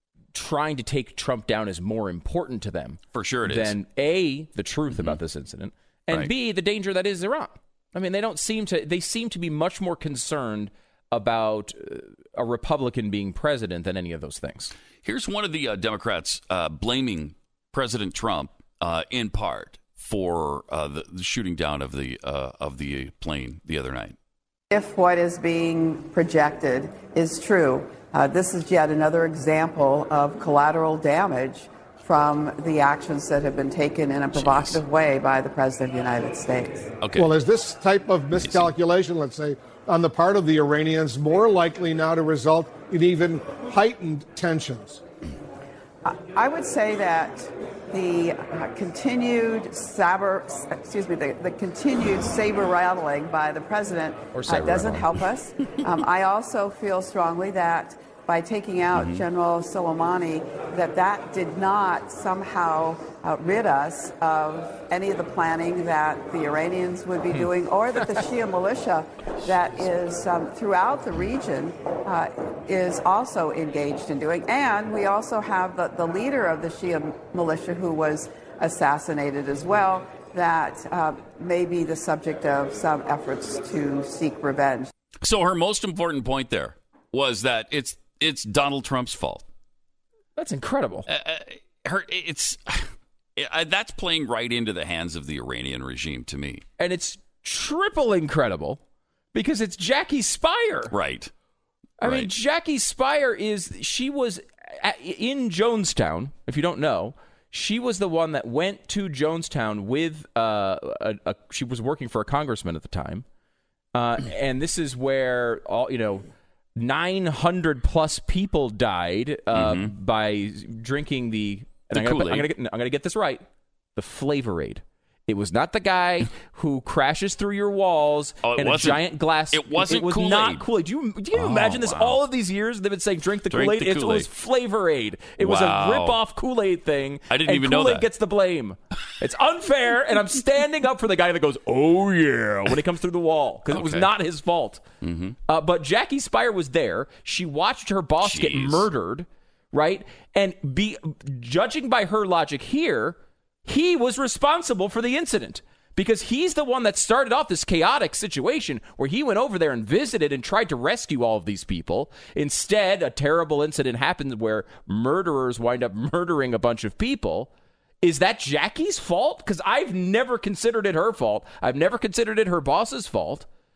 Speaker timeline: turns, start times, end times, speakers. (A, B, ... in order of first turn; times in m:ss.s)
0:00.3-0:14.7 A
0:03.1-0:03.8 B
0:15.0-0:24.1 B
0:24.7-0:36.9 C
0:34.3-0:34.8 B
0:37.0-0:37.3 B
0:37.1-0:45.0 D
0:38.4-0:38.7 B
0:46.0-1:24.9 C
0:54.3-0:55.0 A
0:58.9-0:59.2 B
1:25.2-1:29.4 B
1:30.4-1:31.1 A
1:31.1-1:36.6 B
1:36.8-1:38.8 A
1:39.3-1:40.9 A
1:40.9-1:41.3 B
1:42.0-1:53.2 A
1:42.0-1:42.3 B
1:53.9-2:03.4 A
1:59.6-1:59.9 B
2:01.9-2:02.5 B
2:04.0-2:24.8 A
2:08.4-2:10.6 B
2:11.3-2:12.2 B
2:13.5-2:14.3 B
2:15.4-2:16.2 B
2:17.3-2:18.1 B
2:23.7-2:24.1 B
2:25.0-2:25.4 B
2:25.5-2:47.5 A
2:28.2-2:28.9 B
2:48.0-2:53.5 A